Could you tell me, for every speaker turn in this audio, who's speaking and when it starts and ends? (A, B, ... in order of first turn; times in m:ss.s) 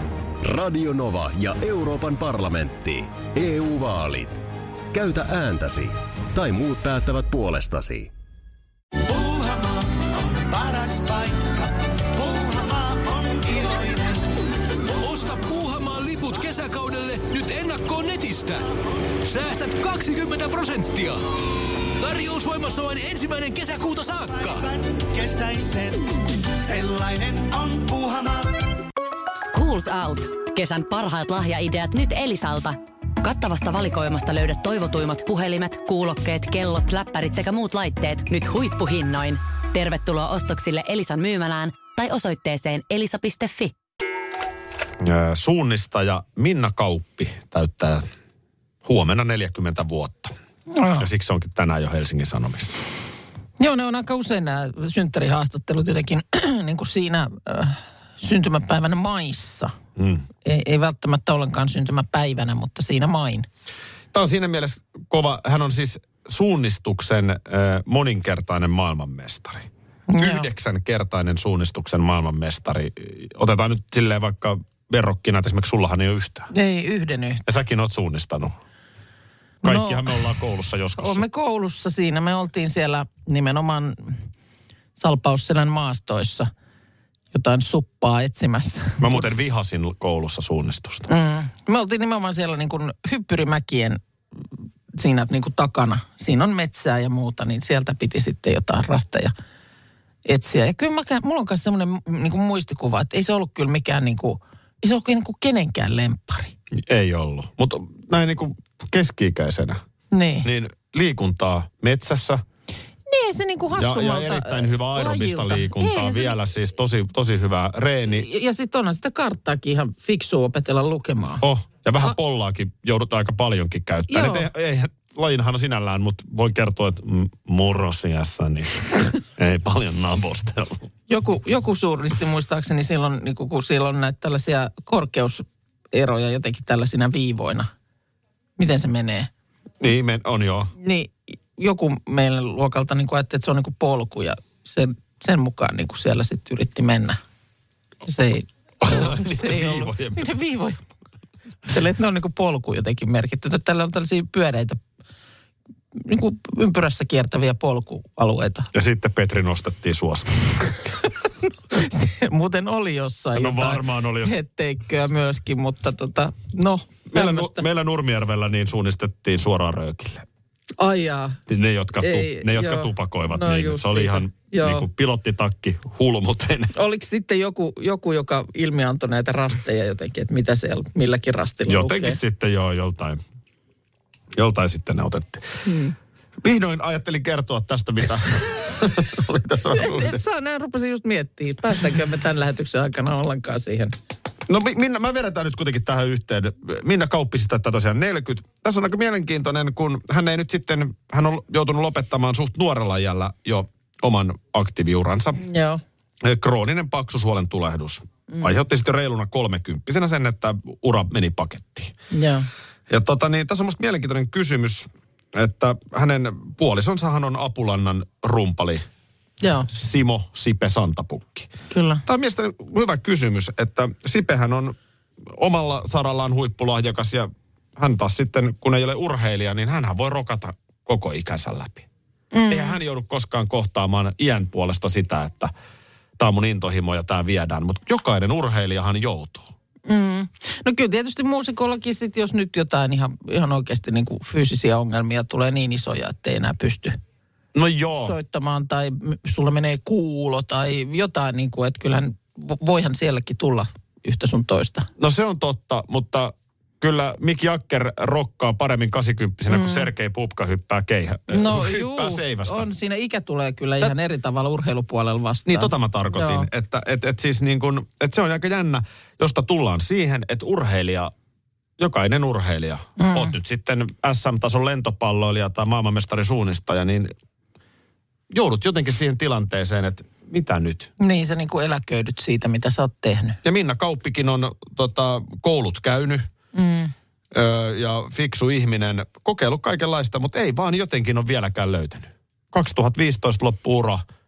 0:00.4-0:08.1 A
0:09.0-0:14.3 B
0:15.0-0:18.6 C
0:19.2-0:21.2 C
0:22.0-0:24.6 C
0:24.4-0:28.6 B
0:29.3-0:43.7 D
0:45.0-0:48.0 E
0:48.8-0:50.3 E
0:50.7-0:51.0 F
0:51.0-0:52.8 E
0:53.6-0:59.7 F
1:00.0-1:00.2 E
1:00.4-1:03.5 F
1:04.1-1:16.5 E
1:10.1-1:10.5 F
1:16.5-1:17.4 F
1:17.4-1:18.6 E
1:19.6-1:20.2 F
1:19.6-1:21.2 E
1:21.0-1:24.2 F
1:25.0-1:26.5 F
1:27.3-1:29.3 F
1:29.0-1:31.1 E
1:31.1-1:34.0 F
1:34.9-1:39.3 F
1:40.2-1:46.5 F
1:46.7-1:49.8 E
1:50.1-1:50.5 F
1:50.4-1:52.4 E
1:53.1-1:56.4 F
1:53.8-1:58.3 E
1:58.1-2:01.4 F
2:01.4-2:10.8 E
2:04.1-2:04.5 F
2:11.1-2:17.7 F
2:18.6-2:19.3 F
2:19.8-2:20.7 E
2:20.8-2:27.2 F
2:28.0-2:30.9 F
2:28.8-2:30.3 E
2:31.7-2:34.8 F
2:35.9-2:38.7 F
2:38.7-2:40.8 E
2:41.7-2:47.6 F
2:43.3-2:44.3 E
2:47.1-2:50.2 E
2:50.8-2:51.4 F
2:51.5-2:56.7 E
2:52.0-2:54.9 F
2:56.7-3:02.2 F
3:01.6-3:03.2 E
3:04.4-3:05.6 E
3:05.6-3:05.9 F
3:06.4-3:10.2 E
3:09.8-3:13.9 F
3:14.5-3:25.4 E
3:25.4-3:25.8 F
3:26.2-3:31.9 E
3:32.1-3:32.5 F
3:32.9-3:38.8 E
3:39.4-3:39.7 F
3:39.7-3:41.5 E
3:41.7-3:42.0 F
3:42.0-3:44.8 E
3:45.3-3:51.9 E
3:52.3-3:52.8 F
3:52.5-3:55.5 E
3:56.2-3:59.5 E
3:59.9-4:07.0 F
4:07.5-4:08.2 E
4:08.0-4:14.9 F
4:15.0-4:22.7 E
4:19.5-4:19.9 F
4:21.3-4:26.5 F
4:25.5-4:31.1 E
4:31.8-4:37.1 E
4:33.0-4:33.3 F
4:38.3-4:40.9 E
4:41.0-4:43.4 F
4:43.4-4:46.3 E
4:46.5-4:46.9 F
4:47.3-4:54.0 E